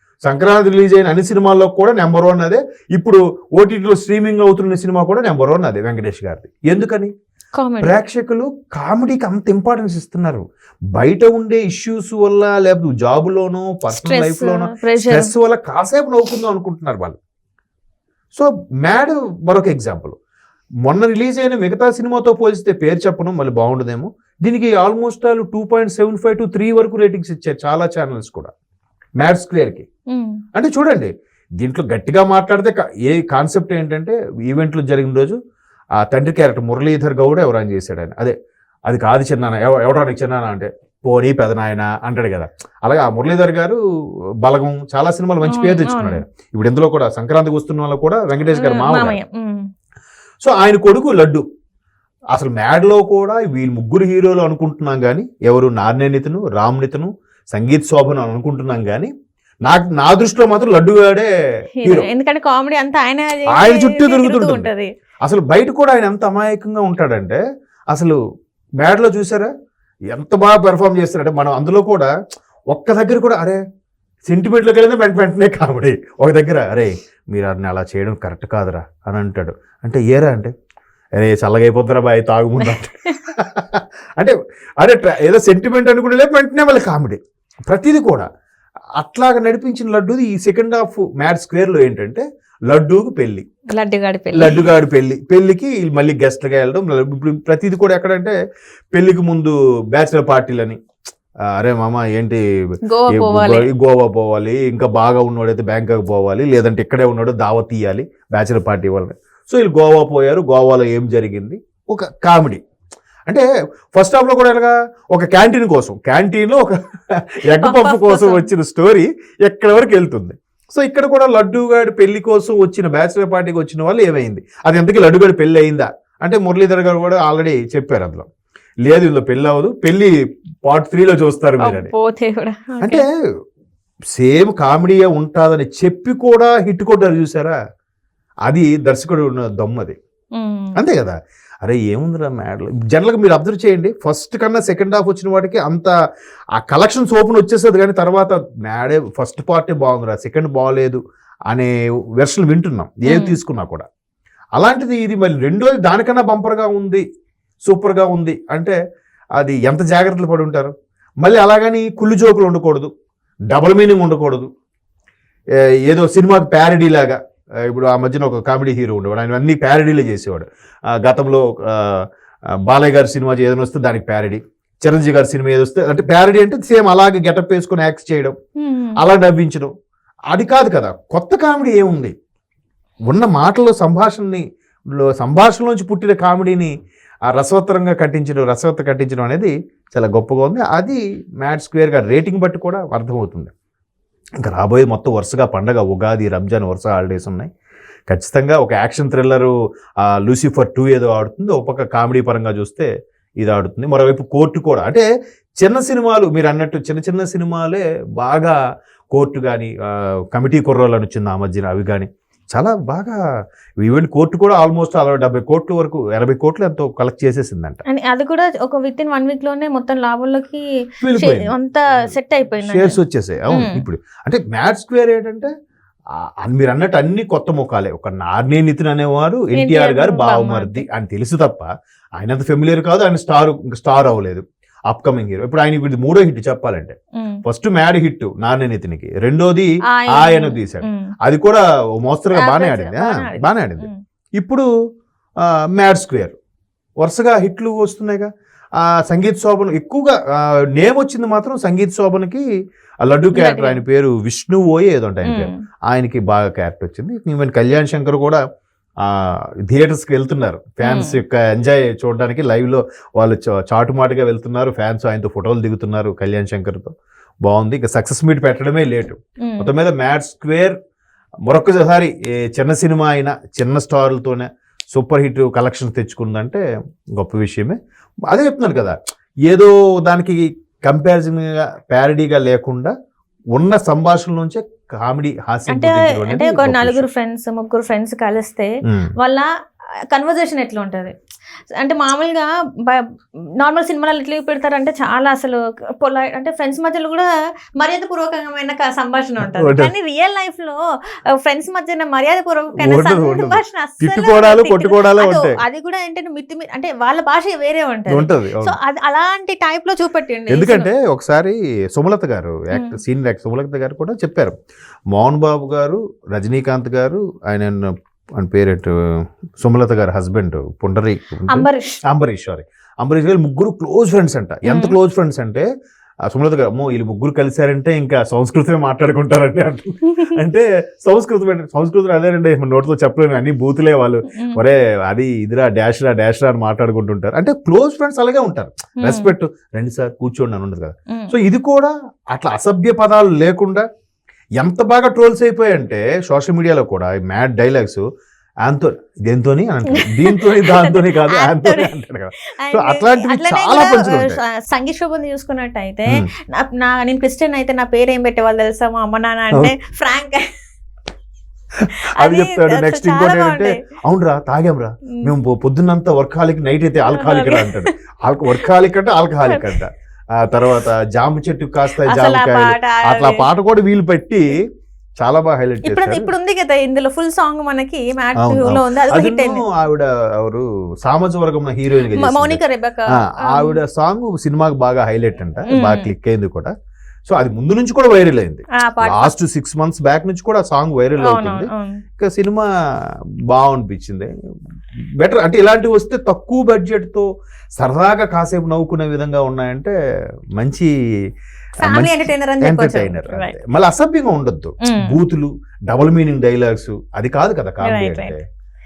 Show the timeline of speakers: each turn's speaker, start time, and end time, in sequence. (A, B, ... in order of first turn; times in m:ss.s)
0:00.2-0:07.1 A
0:07.6-0:08.0 B
0:07.8-0:10.4 A
0:11.0-0:17.2 A
0:13.9-0:15.3 B
0:18.3-0:20.2 A
0:20.8-0:28.5 A
0:29.2-0:29.9 A
0:30.1-0:30.4 B
0:30.5-0:35.4 A
0:36.0-0:38.3 A
0:38.9-0:43.8 A
0:44.4-0:49.2 A
0:45.4-0:46.2 B
0:48.5-0:49.6 B
0:50.4-0:51.4 A
0:52.3-0:59.1 A
0:59.6-1:01.3 A
1:01.8-1:04.9 B
1:01.8-1:02.1 A
1:03.5-1:04.7 A
1:05.2-1:08.2 A
1:08.8-1:09.5 A
1:10.1-1:12.1 A
1:12.7-1:13.6 A
1:14.3-1:20.5 A
1:21.2-1:28.3 A
1:29.0-1:33.4 A
1:33.7-1:34.6 B
1:34.3-1:38.3 A
1:38.9-1:40.8 A
1:41.5-1:42.4 A
1:42.9-1:43.7 B
1:43.1-1:52.6 A
1:53.3-2:08.3 A
1:57.6-1:58.5 B
2:08.8-2:10.1 A
2:10.6-2:11.9 A
2:11.6-2:13.0 B
2:12.8-2:13.1 A
2:14.1-2:17.6 A
2:18.5-2:20.0 A
2:20.4-2:20.7 B
2:20.8-2:25.9 A
2:26.6-2:31.0 A
2:31.5-2:33.8 A
2:33.0-2:33.3 B
2:34.6-2:37.0 A
2:37.6-2:38.8 A
2:39.4-2:42.9 A
2:43.5-2:44.5 A
2:45.8-2:52.0 A
2:52.6-2:58.4 A
2:58.6-2:59.0 B
2:59.0-2:59.7 A
3:00.3-3:02.1 A
3:03.1-3:04.4 A
3:05.0-3:06.7 A
3:07.3-3:13.5 A
3:14.4-3:17.5 A
3:18.1-3:25.0 A
3:25.6-3:28.6 A
3:29.1-3:33.2 A
3:33.8-3:37.8 A
3:37.9-3:40.6 B
3:41.0-3:41.5 A
3:41.1-3:43.0 B
3:42.6-3:45.5 A
3:43.5-3:43.8 B
3:46.4-4:04.7 A
3:49.5-3:50.8 B
3:59.9-4:01.1 B
4:02.4-4:04.0 B
4:05.4-4:06.4 A
4:07.0-4:12.4 A
4:13.0-4:18.4 A
4:13.3-4:13.8 B
4:15.2-4:15.6 B
4:19.0-4:26.9 A
4:20.8-4:21.2 B
4:27.4-4:30.8 A
4:29.4-4:29.7 B
4:31.5-4:36.6 A
4:37.2-4:37.8 A
4:38.3-4:39.0 A
4:39.5-4:42.9 A
4:43.5-4:47.0 A
4:45.7-4:49.5 B
4:48.8-4:49.1 A
4:50.1-4:51.1 B
4:51.8-4:53.1 B
4:53.6-5:00.8 B
4:59.4-4:59.9 A
5:01.4-5:10.9 B
5:02.8-5:05.6 A
5:08.1-5:08.8 A
5:10.5-5:14.5 A
5:12.7-5:13.0 B
5:15.1-5:18.9 A
5:19.6-5:25.7 A
5:21.5-5:22.0 B
5:24.6-5:24.9 B
5:26.3-5:43.8 A
5:34.3-5:34.6 B
5:39.0-5:39.3 B
5:44.6-5:48.0 A
5:48.6-5:54.4 A
5:49.9-5:52.0 B
5:52.6-6:00.5 B
6:02.2-6:03.8 B
6:02.2-6:14.6 A
6:07.1-6:07.9 B
6:09.4-6:09.7 B
6:12.0-6:13.4 B
6:15.2-6:16.3 A
6:15.8-6:19.6 B
6:18.4-6:22.6 A
6:22.1-6:23.8 B
6:23.1-6:26.7 A
6:25.7-6:26.1 B
6:27.3-6:32.7 A
6:28.7-6:29.3 B
6:31.2-6:32.0 B
6:33.5-6:34.3 A
6:35.2-6:39.9 A
6:40.6-6:40.9 A
6:41.8-6:43.6 B
6:41.8-6:48.4 A
6:44.8-6:45.2 B
6:47.8-6:48.4 B